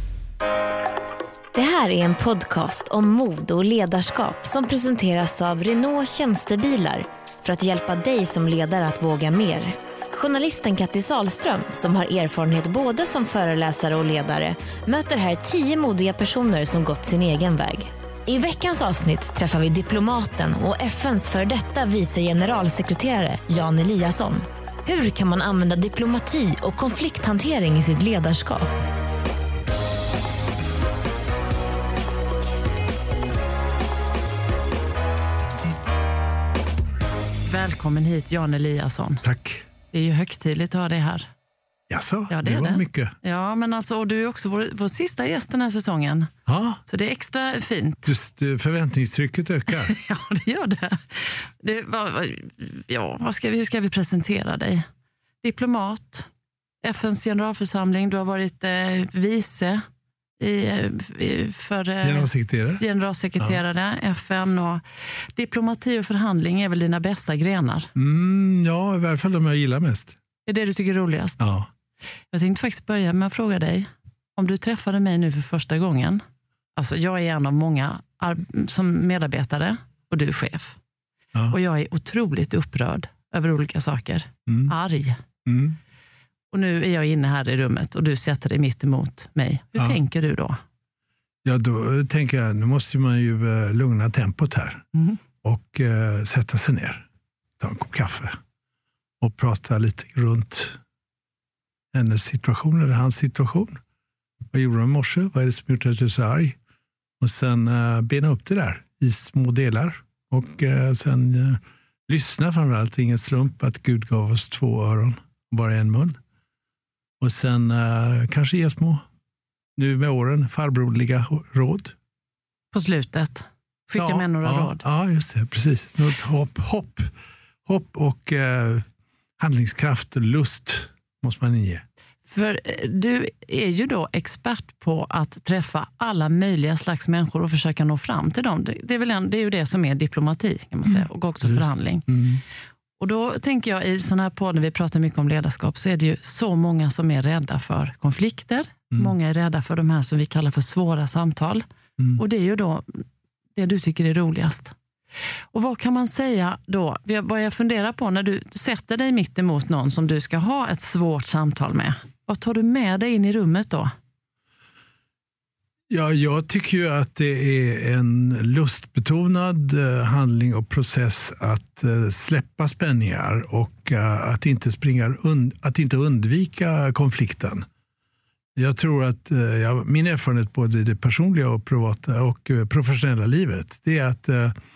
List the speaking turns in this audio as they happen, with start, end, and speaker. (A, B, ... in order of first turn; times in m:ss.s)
0:01.5-0:28.7 A
0:37.5-0:39.2 B
0:39.2-0:39.6 C
0:39.9-0:41.3 B
0:41.9-0:43.1 C
0:42.3-0:46.3 B
0:46.5-0:46.8 C
0:46.9-0:48.1 B
0:48.1-0:50.0 C
0:49.7-0:54.9 B
0:55.4-0:56.3 B
0:56.8-0:59.8 B
1:00.4-1:04.8 B
1:02.0-1:02.8 C
1:05.4-1:07.9 B
1:08.0-1:10.2 C
1:10.5-1:11.4 B
1:11.4-1:11.7 C
1:12.3-1:16.2 B
1:16.8-1:20.8 B
1:21.5-1:25.2 B
1:24.5-1:24.7 C
1:25.5-1:25.8 C
1:26.5-1:30.6 B
1:31.4-1:34.9 C
1:35.4-1:37.1 C
1:37.6-1:38.4 C
1:39.2-1:40.8 C
1:41.9-1:43.8 C
1:44.5-1:46.6 C
1:47.2-1:56.2 C
1:57.2-1:59.0 C
1:59.8-2:02.0 C
2:02.7-2:04.8 B
2:04.0-2:07.1 C
2:07.7-2:08.8 C
2:09.4-2:11.8 C
2:12.3-2:22.1 B
2:21.4-2:22.4 C
2:23.0-2:31.6 B
2:32.2-2:33.0 B
2:33.6-2:34.7 B
2:35.5-2:43.9 B
2:45.9-2:57.7 C
2:58.6-3:04.6 C